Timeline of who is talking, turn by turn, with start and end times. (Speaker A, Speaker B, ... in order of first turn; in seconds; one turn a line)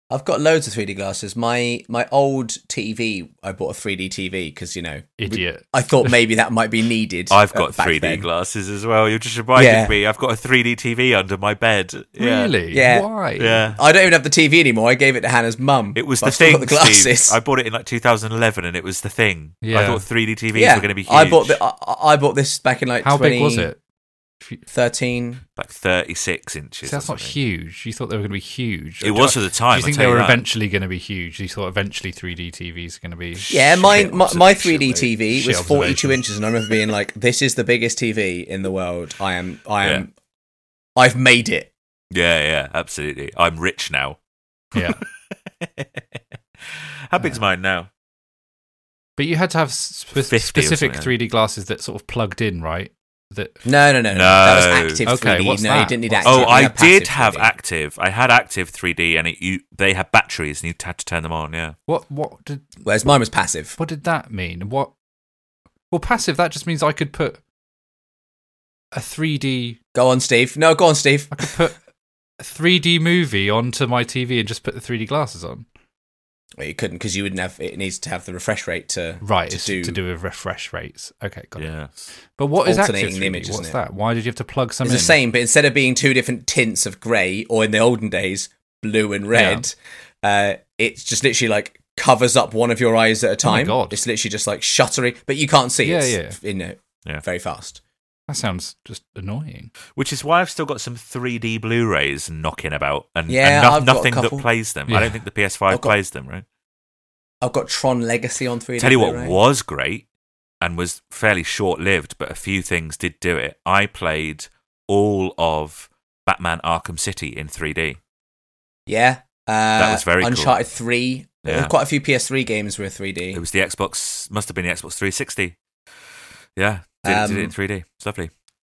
Speaker A: 0.1-8.3
Speaker B: 5.2-6.1
Speaker C: 7.3-12.6
Speaker A: 9.5-9.9
Speaker B: 12.2-13.7
Speaker A: 12.7-13.1
Speaker C: 13.4-13.8
Speaker A: 13.7-17.4
Speaker C: 15.9-21.6
Speaker B: 19.6-20.0
Speaker A: 20.5-23.7
Speaker B: 23.0-23.8
Speaker A: 24.7-25.4
Speaker C: 25.6-27.4
Speaker B: 26.9-36.2
Speaker C: 29.0-30.4
Speaker A: 33.5-40.1
Speaker A: 41.0-41.7
Speaker C: 42.1-44.2
Speaker B: 44.7-45.0
Speaker C: 44.8-45.0
Speaker C: 46.7-47.9
Speaker B: 49.2-53.6
Speaker C: 50.1-51.1
Speaker A: 53.6-57.5
Speaker C: 54.1-55.0
Speaker B: 55.1-56.6
Speaker C: 56.2-61.8
Speaker B: 61.9-62.8
Speaker A: 62.8-63.8
Speaker B: 63.8-64.9
Speaker B: 65.9-67.4
Speaker B: 68.9-69.8
Speaker A: 70.0-71.5
Speaker B: 71.3-71.8
Speaker B: 72.4-75.7
Speaker A: 76.6-80.0
Speaker B: 79.2-81.7
Speaker C: 81.6-82.1
Speaker B: 82.3-85.2
Speaker A: 82.6-83.8
Speaker A: 84.8-97.8
Speaker B: 89.3-89.7
Speaker B: 93.4-94.0
Speaker B: 95.8-96.4
Speaker B: 98.3-99.7
Speaker C: 100.0-106.5
Speaker A: 103.3-104.5
Speaker B: 104.9-105.2
Speaker A: 105.7-106.0
Speaker A: 107.4-109.3
Speaker C: 108.8-110.0
Speaker C: 110.6-118.0
Speaker A: 118.9-123.4
Speaker C: 119.8-120.6
Speaker C: 121.5-121.7
Speaker C: 123.3-125.6
Speaker C: 126.6-128.3
Speaker A: 127.0-127.5